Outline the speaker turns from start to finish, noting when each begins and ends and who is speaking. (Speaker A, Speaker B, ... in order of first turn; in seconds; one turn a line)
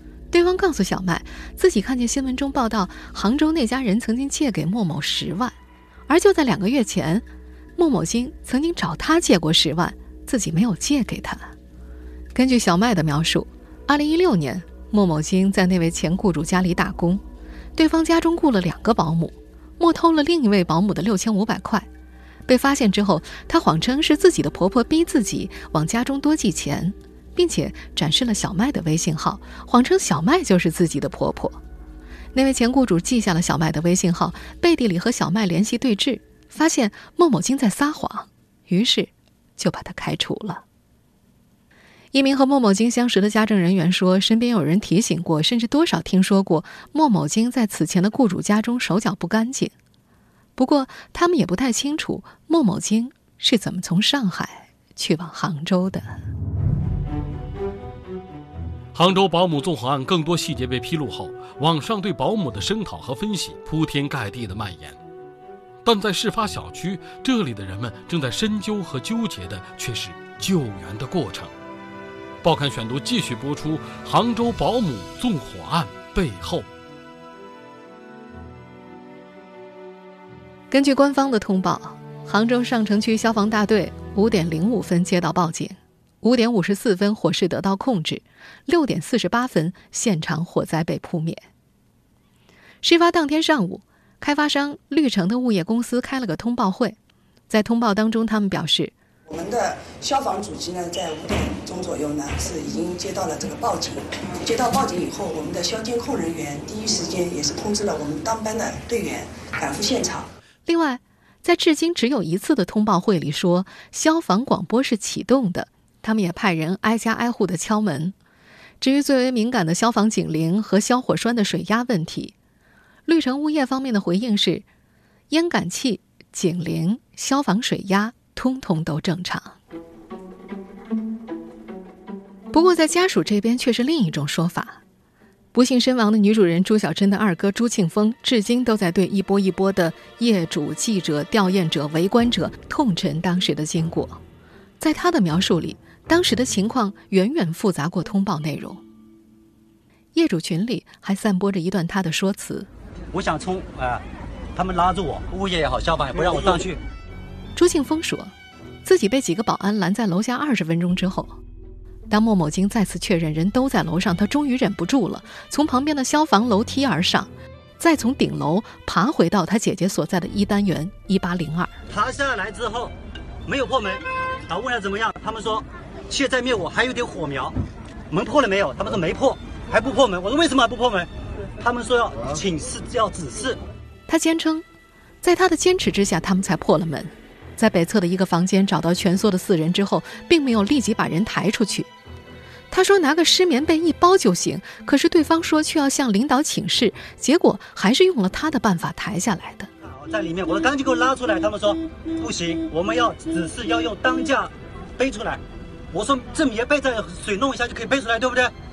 Speaker A: 0.3-5.5
Speaker A: 6.1-7.2
Speaker A: 7.8-11.5
Speaker A: 12.3-17.2
Speaker A: 17.8-21.9
Speaker A: 22.5-31.6
Speaker A: 32.3-40.6
Speaker A: 42.1-49.7
Speaker A: 50.5-56.1
Speaker B: 58.9-65.0
Speaker B: 65.8-71.5
Speaker B: 72.4-76.7
Speaker A: 80.7-91.4
Speaker A: 92.8-97.0
Speaker A: 97.5-98.9
Speaker C: 99.3-110.3
Speaker A: 110.7-118.1
Speaker A: 118.8-122.3
Speaker A: 123.1-124.7
Speaker A: 125.3-129.6
Speaker A: 132.5-134.8
Speaker A: 135.5-144.2
Speaker A: 144.8-148.8
Speaker A: 150.1-152.7
Speaker D: 153.1-154.0
Speaker D: 154.5-156.8
Speaker A: 157.6-161.4
Speaker A: 162.1-171.7
Speaker D: 171.9-172.9
Speaker D: 173.4-177.5
Speaker D: 178.1-181.1
Speaker D: 181.6-183.6
Speaker A: 184.1-184.6
Speaker A: 185.2-191.9
Speaker A: 192.7-199.7
Speaker D: 199.9-208.5